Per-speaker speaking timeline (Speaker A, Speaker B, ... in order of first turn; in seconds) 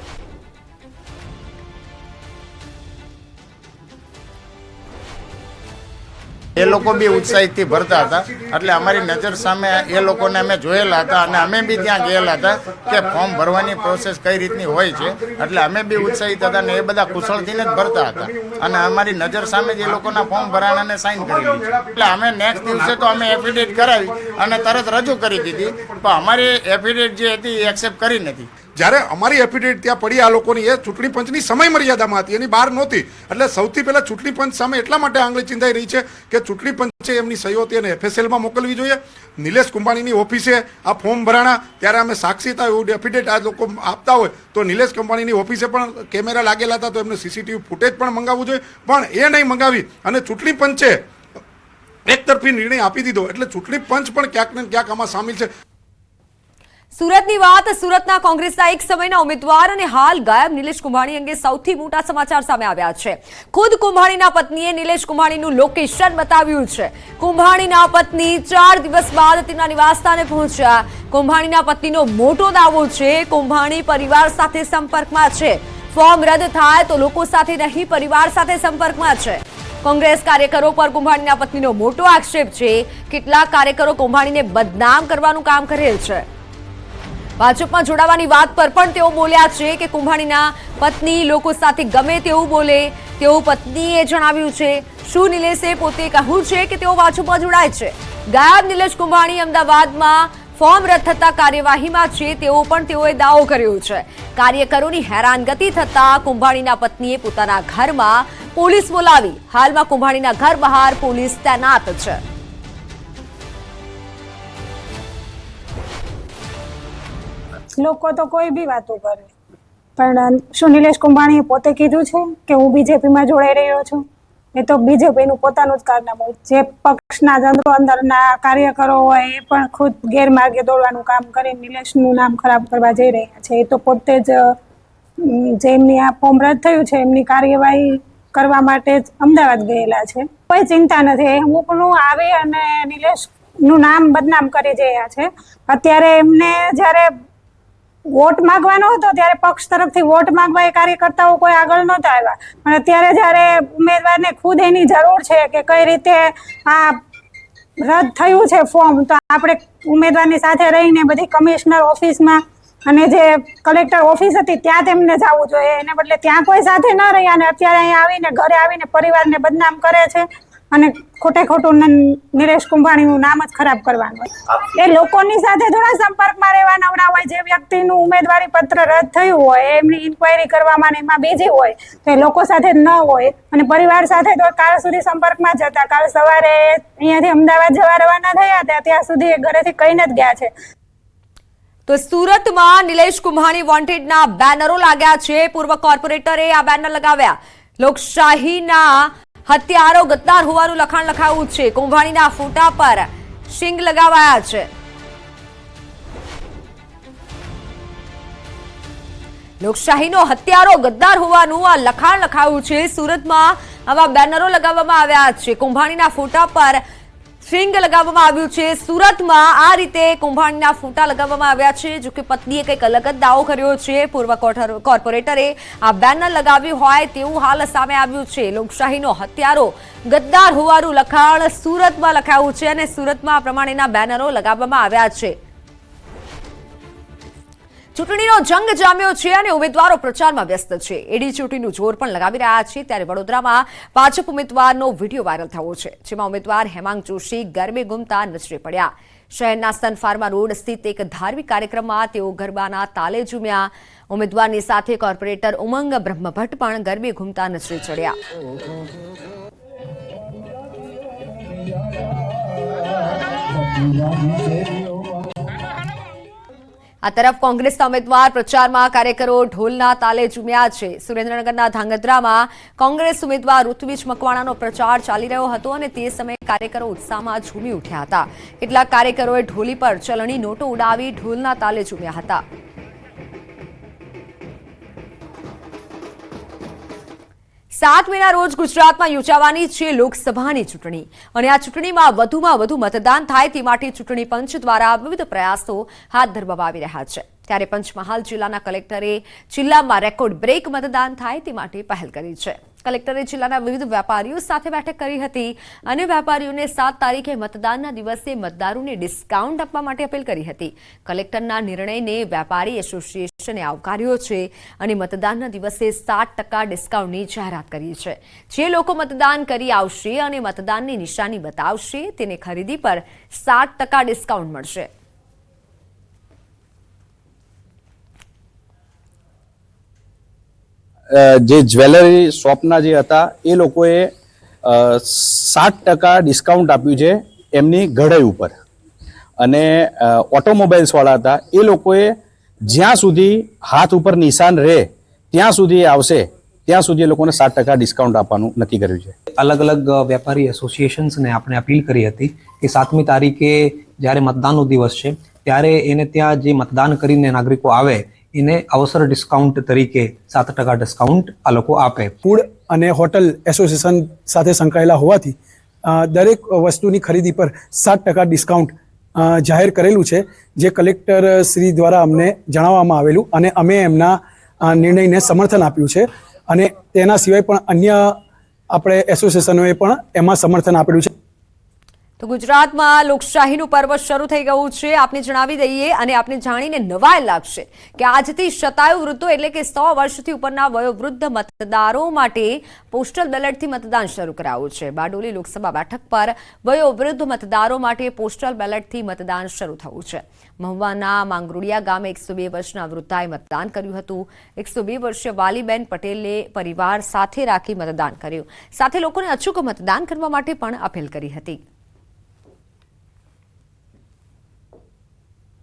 Speaker A: 6.6-28.5
Speaker B: 6.8-7.1, 7.8-10.4, 11.1-13.5, 14.7-15.4, 16.3-19.1, 19.8-20.4, 21.4-26.0, 28.8-51.0, 52.1-55.5
Speaker C: 13.2-13.8, 14.6-14.9, 16.3-17.7, 18.8-21.5, 22.3-23.8, 24.4-25.6, 362.2-365.4, 365.9-378.1, 378.7-381.1
Speaker D: 56.9-86.2, 87.4-112.2, 191.9-204.7, 209.6-216.8, 217.4-235.4, 237.9-258.2, 267.0-282.4, 287.8-324.9, 382.2-411.6
Speaker E: 117.8-119.3, 120.0-124.0, 124.5-134.4, 135.2-147.1, 148.1-157.0, 157.8-190.5
Speaker F: 331.1-334.1, 334.7-338.5, 339.4-342.1, 342.7-349.1
Speaker G: 349.4-362.1